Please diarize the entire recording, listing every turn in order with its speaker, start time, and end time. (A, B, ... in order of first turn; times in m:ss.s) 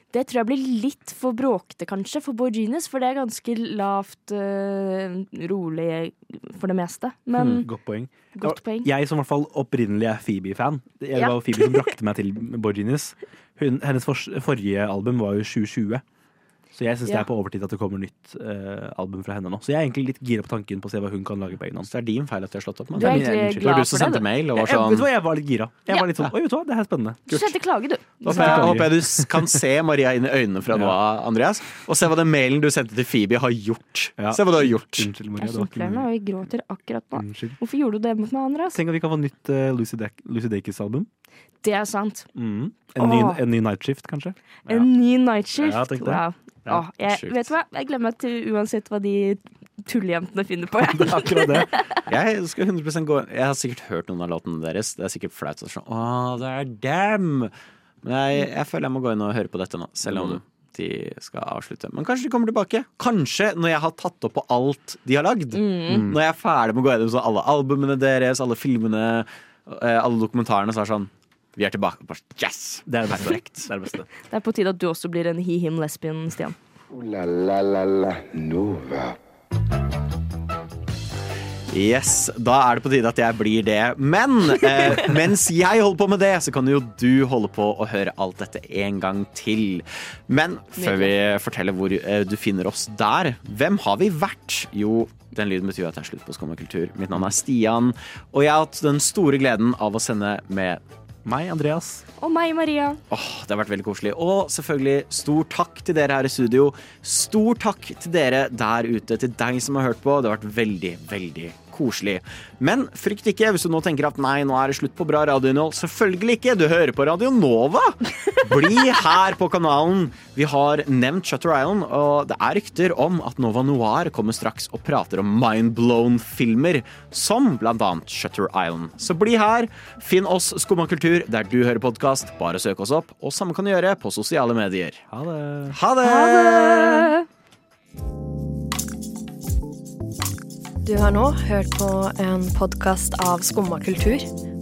0:00.1-0:07.7 A
0:07.4-0:16.0 B
0:08.4-0:08.9 A
0:11.2-0:11.9 A
0:16.7-0:21.9 B
0:21.8-0:25.1 C
0:23.0-0:23.7 B
0:23.0-0:24.2 A
0:24.6-0:27.4 B
0:27.3-0:28.8 A
0:28.2-0:35.1 C
0:28.3-0:29.6 B
0:34.2-0:36.1 B
0:35.4-0:38.8 A
0:37.1-0:37.6 B
0:38.7-0:41.1 B
0:41.6-0:42.3 A
0:42.4-0:44.9 B
0:43.0-0:43.4 A
0:44.7-0:52.0 A
0:45.6-0:46.8 B
0:47.1-0:47.4 C
0:50.8-0:51.7 B
0:52.1-0:57.5 C
0:58.0-1:13.7 C
1:00.0-1:00.4 B
1:05.6-1:06.1 A
1:05.9-1:06.2 B
1:12.9-1:14.1 B
1:14.3-1:16.6 A
1:16.9-1:19.2 D
1:21.7-1:40.8 C
1:30.8-1:31.1 A
1:41.2-1:42.0 B
1:42.2-1:43.0 A
1:43.1-2:15.0 C
2:15.1-2:15.8 B
2:15.7-2:17.1 C
2:16.0-2:17.2 A
2:20.8-2:24.3 E